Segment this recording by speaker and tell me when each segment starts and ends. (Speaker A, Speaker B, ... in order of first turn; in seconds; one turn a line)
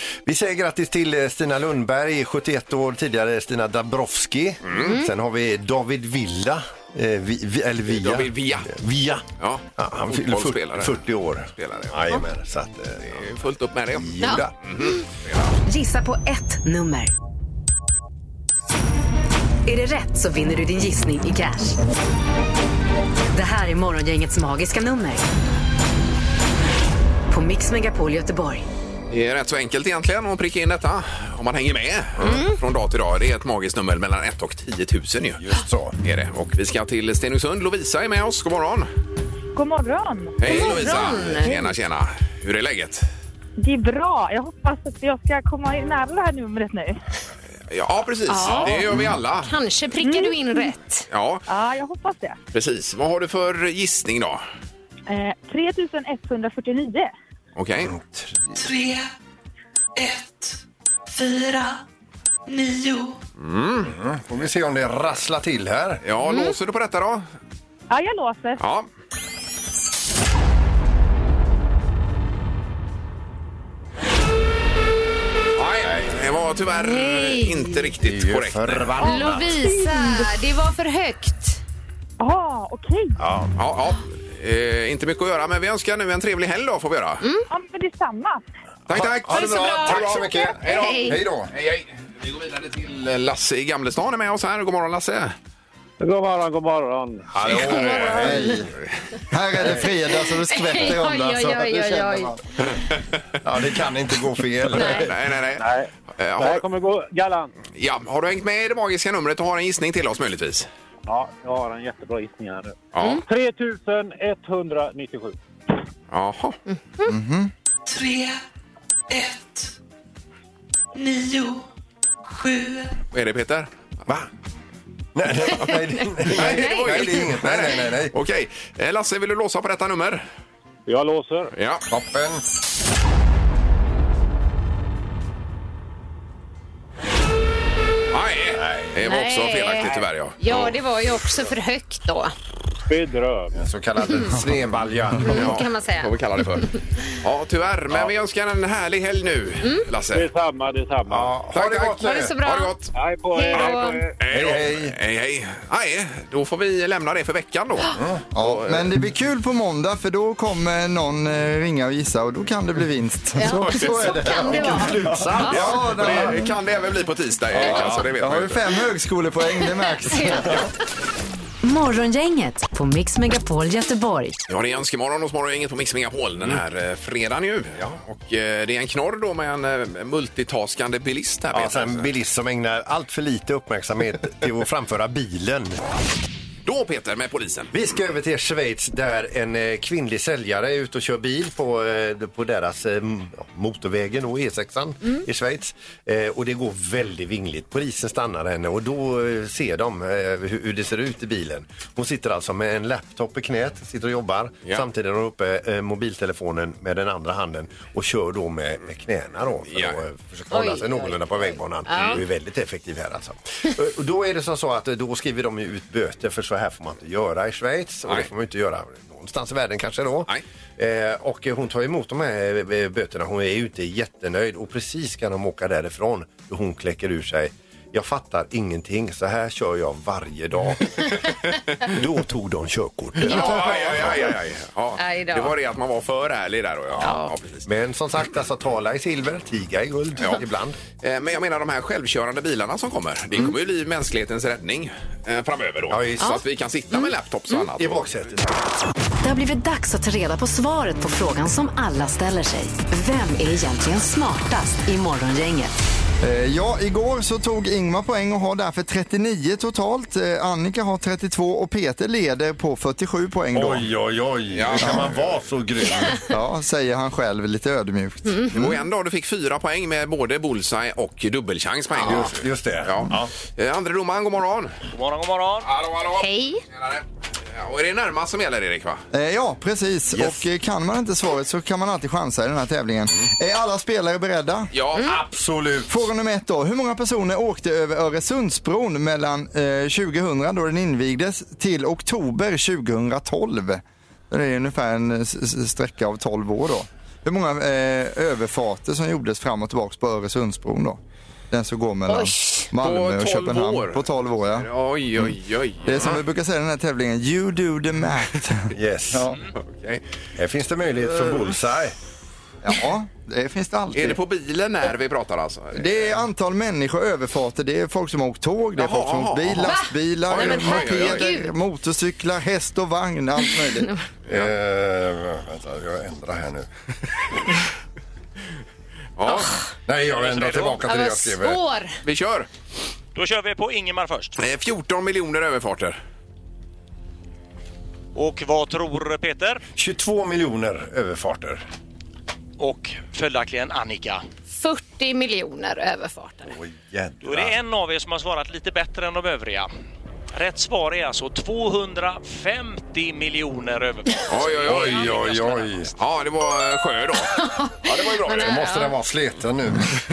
Speaker A: 0.3-9.2
Speaker B: 4.7-5.0
Speaker C: 4.8-5.1
Speaker B: 7.9-8.7
Speaker B: 9.4-12.1
Speaker A: 9.8-13.4
Speaker B: 13.0-15.6
Speaker A: 13.9-14.5
Speaker D: 15.7-17.1
Speaker D: 19.7-21.8
Speaker D: 23.3-25.2
Speaker D: 27.3-28.6
Speaker B: 29.1-35.4
Speaker A: 35.4-36.0
Speaker B: 36.0-38.9
Speaker E: 39.5-40.9
Speaker B: 40.4-43.1
Speaker C: 40.5-41.6
Speaker E: 43.6-47.0
Speaker B: 47.7-49.5
Speaker C: 48.3-51.1
Speaker E: 50.0-50.7
Speaker B: 51.1-51.5
Speaker E: 51.5-52.4
Speaker B: 52.5-54.4
Speaker E: 55.1-57.1
Speaker B: 57.6-57.9
Speaker A: 57.8-58.6
Speaker F: 58.6-59.1
Speaker F: 60.0-60.5
Speaker F: 61.2-61.8
Speaker F: 62.5-63.1
Speaker B: 63.4-64.0
Speaker A: 63.9-66.0
Speaker B: 66.0-67.3
Speaker E: 67.9-68.6
Speaker B: 68.6-68.9
Speaker B: 75.6-78.9
Speaker C: 76.8-77.9
Speaker A: 78.0-79.6
Speaker C: 79.0-81.6
Speaker E: 79.0-80.3
Speaker E: 82.2-83.2
Speaker A: 83.2-83.5
Speaker B: 83.6-87.2
Speaker C: 87.2-87.5
Speaker E: 87.5-88.4
Speaker B: 88.9-95.3
Speaker A: 88.9-91.5
Speaker C: 89.3-91.2
Speaker G: 96.0-97.5
Speaker A: 97.3-98.5
Speaker B: 97.4-97.9
Speaker C: 97.5-98.6
Speaker H: 98.0-98.7
Speaker H: 99.3-102.4
Speaker A: 99.6-99.9
Speaker C: 100.0-102.4
Speaker A: 103.4-105.2
Speaker C: 104.7-105.1
Speaker B: 104.8-106.7
Speaker G: 105.6-107.5
Speaker B: 107.7-110.7
Speaker G: 111.1-115.3
Speaker B: 112.9-113.2
Speaker B: 116.1-116.6
Speaker H: 117.1-117.5
Speaker F: 117.9-118.4
Speaker F: 119.1-119.7
Speaker F: 121.0-121.6
Speaker F: 122.4-122.8
Speaker B: 123.1-123.7
Speaker A: 125.2-128.1
Speaker C: 125.5-127.1
Speaker B: 126.3-130.2
Speaker G: 130.9-131.5
Speaker B: 131.5-131.8
Speaker A: 131.9-132.4
Speaker B: 138.1-140.7
Speaker A: 138.5-138.9
Speaker C: 139.0-142.3
Speaker G: 142.9-143.6
Speaker A: 143.5-145.3
Speaker C: 144.0-144.4
Speaker C: 145.2-147.0
Speaker B: 145.2-146.7
Speaker B: 147.2-150.3
Speaker G: 150.1-151.4
Speaker A: 151.1-152.3
Speaker B: 151.5-152.9
Speaker C: 152.0-152.8
Speaker G: 152.9-154.2
Speaker C: 153.3-154.1
Speaker B: 153.5-158.9
Speaker A: 154.3-155.0
Speaker A: 157.9-158.2
Speaker H: 158.3-166.4
Speaker C: 163.4-165.7
Speaker B: 163.5-168.6
Speaker A: 166.0-166.3
Speaker H: 167.5-170.7
Speaker A: 167.6-168.0
Speaker C: 169.9-170.7
Speaker D: 171.6-174.4
Speaker B: 174.5-182.1
Speaker A: 181.5-185.8
Speaker B: 186.7-187.7
Speaker A: 187.7-231.2
Speaker B: 209.7-210.0
Speaker C: 210.5-212.2
Speaker B: 211.9-212.2
Speaker A: 231.9-234.1
Speaker B: 233.2-237.7
Speaker C: 233.2-233.8
Speaker C: 235.0-235.6
Speaker C: 237.0-237.3
Speaker A: 237.7-240.8
Speaker B: 240.2-240.4
Speaker B: 241.0-248.3
Speaker A: 245.9-246.4
Speaker A: 247.8-248.6
Speaker D: 249.2-255.7
Speaker H: 256.2-263.9
Speaker A: 263.5-266.2
Speaker B: 264.5-265.4
Speaker H: 264.8-265.1
Speaker H: 266.3-268.5
Speaker C: 268.3-268.8
Speaker B: 268.5-274.7
Speaker A: 271.9-273.3
Speaker I: 274.9-275.7
Speaker B: 275.6-279.0
Speaker C: 276.2-276.6
Speaker H: 279.1-284.7
Speaker A: 280.1-280.5
Speaker B: 284.7-285.1
Speaker A: 285.0-286.1
Speaker H: 285.9-301.0
Speaker H: 301.5-304.7
Speaker C: 302.1-302.7
Speaker B: 302.8-306.2
Speaker H: 305.9-309.4
Speaker A: 308.7-309.2
Speaker B: 309.6-310.0
Speaker A: 310.4-311.9
Speaker H: 312.6-314.2
Speaker B: 313.9-316.1
Speaker H: 315.8-323.9
Speaker B: 318.8-319.8
Speaker C: 319.6-321.5
Speaker B: 320.3-321.2
Speaker C: 323.4-324.1
Speaker B: 324.3-324.5
Speaker A: 324.3-326.7
Speaker B: 329.2-329.5
Speaker A: 329.9-331.6
Speaker I: 330.3-330.7
Speaker C: 330.8-332.0
Speaker B: 332.0-332.5
Speaker I: 333.1-334.4
Speaker B: 334.4-336.0
Speaker I: 338.1-339.6
Speaker A: 339.8-341.6
Speaker I: 342.6-344.2
Speaker C: 344.5-346.5
Speaker A: 346.4-347.6
Speaker I: 347.2-349.7
Speaker I: 350.3-355.9
Speaker B: 354.3-355.2
Speaker A: 354.6-355.9
Speaker B: 356.0-358.6
Speaker C: 357.2-359.0
Speaker A: 358.3-359.9